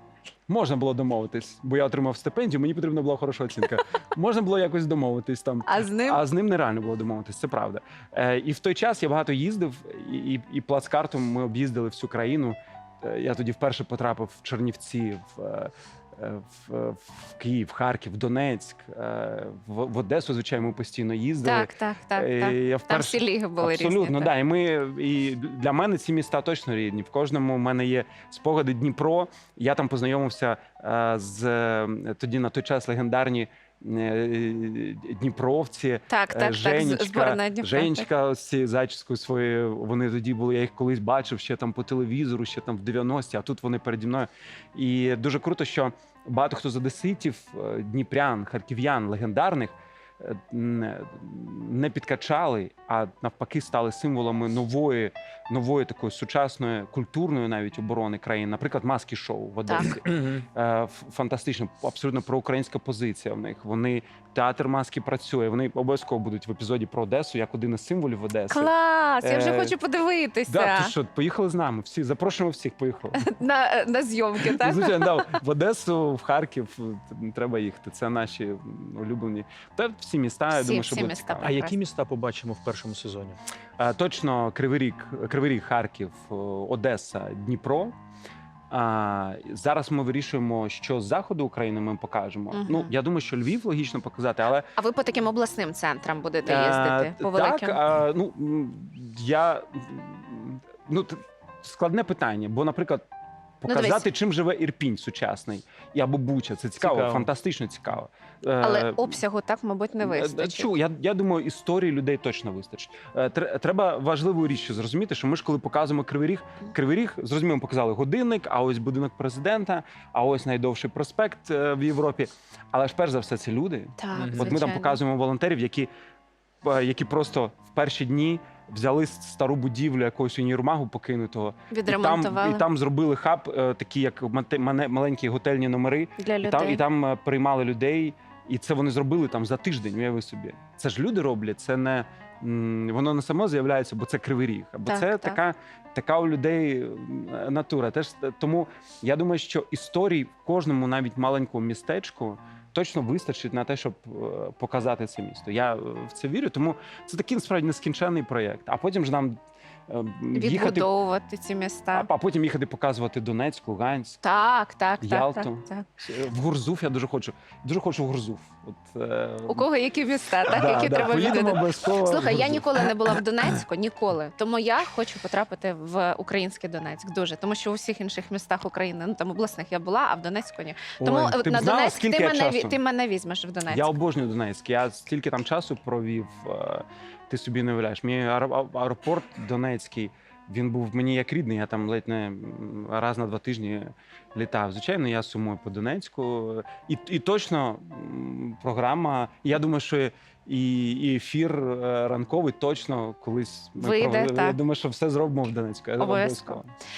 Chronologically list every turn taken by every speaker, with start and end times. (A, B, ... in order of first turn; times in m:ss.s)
0:00.5-1:08.7 A
0:05.6-0:06.2 B
0:21.4-0:24.4 B
0:36.1-0:38.1 B
0:59.6-1:00.0 B
1:00.1-1:00.4 C
1:08.5-1:10.9 B
1:09.2-1:09.8 A
1:10.5-1:13.2 A
1:13.1-1:15.3 B
1:14.4-1:21.6 A
1:20.5-1:21.8 B
1:21.4-1:23.4 C
1:23.8-1:27.9 A
1:28.7-1:34.7 A
1:32.5-1:32.9 B
1:34.8-1:37.8 B
1:36.4-1:43.0 A
1:43.6-1:44.0 B
1:43.6-1:49.2 A
1:46.8-1:47.3 C
1:48.6-1:50.8 B
1:50.0-2:05.9 A
2:04.0-2:05.0 B
2:04.1-2:04.6 C
2:06.6-2:40.9 A
2:11.7-2:12.7 B
2:16.2-2:16.8 B
2:24.8-2:25.4 B
2:40.3-2:42.1 B
2:41.9-2:44.2 A
2:44.2-2:46.0 B
2:45.0-2:49.7 A
2:49.5-3:04.0 B
2:50.4-2:53.1 A
3:01.0-3:02.8 A
3:03.7-3:26.7 A
3:23.8-3:24.6 B
3:26.0-3:26.6 B